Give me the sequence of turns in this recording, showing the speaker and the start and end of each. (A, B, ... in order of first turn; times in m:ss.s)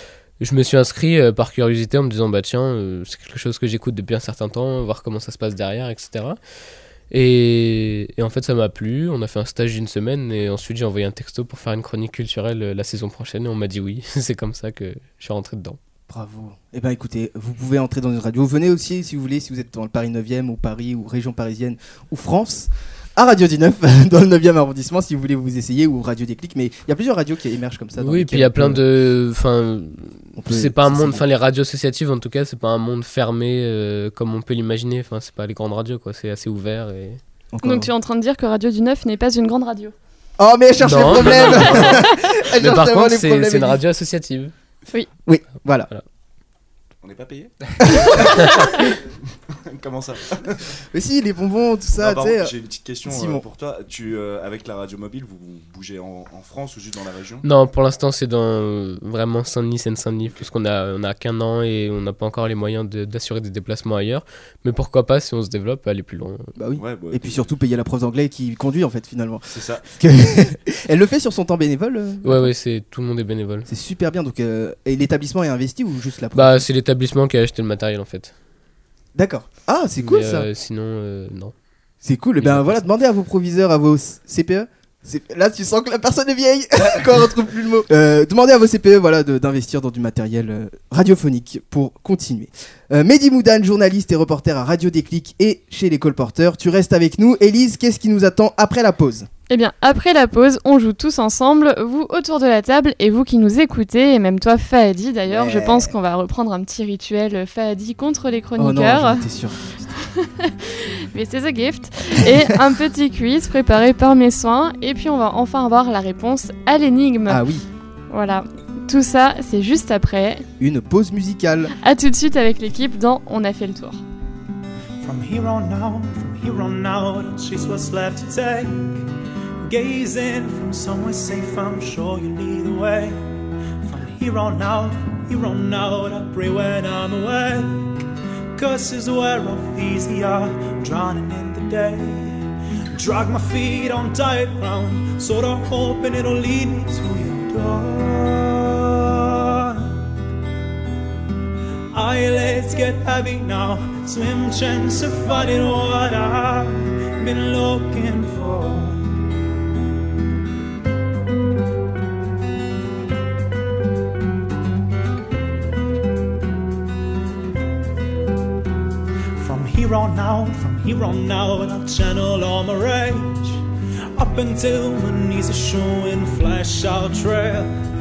0:00.4-0:06.4 A
0:07.1-0:15.8 A
0:16.1-0:28.8 B
0:28.0-0:37.2 A
0:30.4-0:31.2 B
0:37.5-0:37.9 B
0:37.6-0:39.9 C
0:40.4-0:43.8 B
0:40.8-0:44.5 A
0:45.2-0:45.9 B
0:47.0-0:50.7 D
0:47.8-0:48.4 B
0:50.9-0:52.5 B
0:52.0-0:57.4 D
0:53.0-0:53.4 B
0:57.4-1:06.5 A
1:06.6-1:12.5 B
1:06.8-1:07.5 D
1:09.5-1:09.8 D
1:12.2-1:13.7 A
1:13.6-1:16.6 B
1:16.3-1:18.3 A
1:19.1-1:20.5 B
1:20.0-1:21.5 A
1:22.0-1:39.3 B
1:22.4-1:22.8 A
1:39.5-1:49.3 C
1:45.3-1:45.9 B
1:48.6-1:49.7 B
1:50.0-1:57.4 C
1:52.2-1:52.5 B
1:57.3-1:57.6 B
1:58.1-2:00.4 C
2:00.6-2:01.7 B
2:01.8-2:04.0 C
2:05.0-2:09.1 E
2:09.6-2:13.2 E
2:13.8-2:18.0 E
2:18.5-2:30.0 E
2:31.9-2:39.0 E
2:49.4-2:57.7 E